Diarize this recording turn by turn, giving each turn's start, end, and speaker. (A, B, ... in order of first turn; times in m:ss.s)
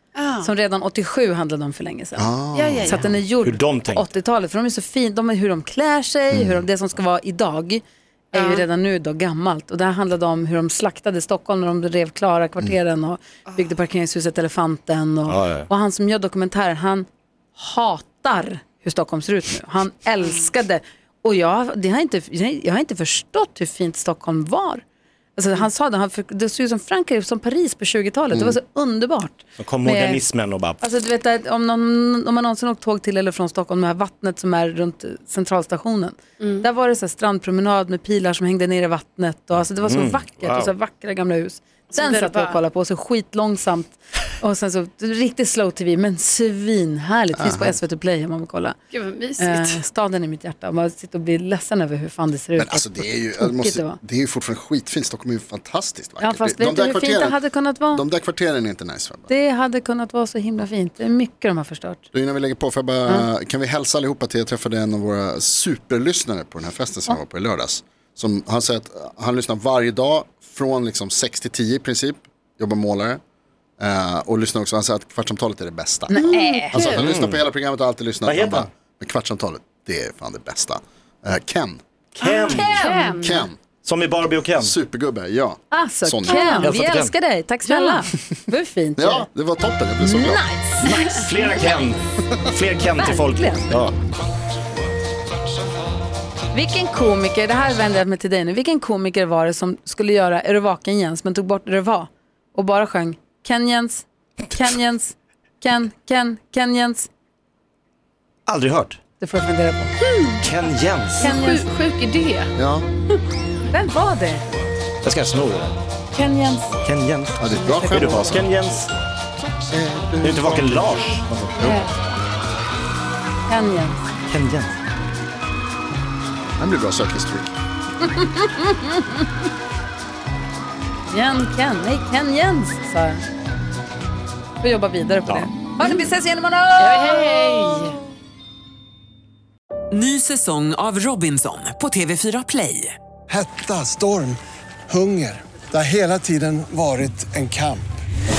0:00.2-0:00.5 A
0:00.4-0:17.1 B
0:02.2-0:03.2 C
0:02.6-0:03.0 A
0:03.4-0:04.1 D
0:06.3-0:06.6 C
0:08.3-0:08.6 A
0:15.3-0:15.7 D
0:17.6-0:24.8 B
0:25.4-0:30.2 B
0:29.6-0:30.8 D
0:30.8-0:48.8 B
0:39.8-0:40.7 D
0:41.9-0:42.6 A
0:47.3-0:47.8 C
0:48.9-0:49.8 A
0:49.4-0:54.0 B
0:52.6-0:57.4 C
0:56.2-0:58.0 B
0:57.9-0:59.3 C
0:59.3-1:02.0 B
1:02.1-1:13.2 C
1:13.8-1:16.2 C
1:16.1-1:16.9 B
1:16.1-1:17.1 A
1:16.7-1:21.8 C
1:16.9-1:17.4 D
1:18.2-1:18.7 D
1:22.2-1:22.9 D
1:22.2-1:23.5 A
1:22.5-1:23.4 B
1:23.2-1:23.6 C
1:23.8-1:24.7 D
1:24.6-1:26.6 C
1:25.7-1:29.3 B
1:26.3-1:26.6 A
1:26.6-1:27.1 D
1:27.7-1:28.0 A
1:29.0-1:30.4 C
1:30.0-1:31.3 B
1:30.8-1:34.0 D
1:32.9-1:33.8 B
1:36.5-1:47.1 B
1:48.5-1:49.0 D
1:49.2-1:49.9 B
1:50.0-1:50.4 A
1:50.4-1:51.4 D
1:51.2-1:52.5 A
1:51.2-1:51.7 B
1:52.6-1:52.9 C
1:53.7-1:54.4 B
1:55.0-1:55.8 D
1:56.1-1:56.8 B
1:56.8-1:58.9 D
1:57.4-1:58.4 C
1:57.5-1:58.4 B
1:59.7-2:01.8 C
2:00.2-2:01.6 D
2:01.6-2:01.9 B
2:03.5-2:04.0 B
2:04.3-2:04.8 D
2:06.6-2:07.5 C
2:08.2-2:08.9 B
2:11.1-2:13.2 B
2:14.6-2:17.4 B
2:16.8-2:18.0 A
2:19.9-2:23.0 E
2:23.3-2:27.9 F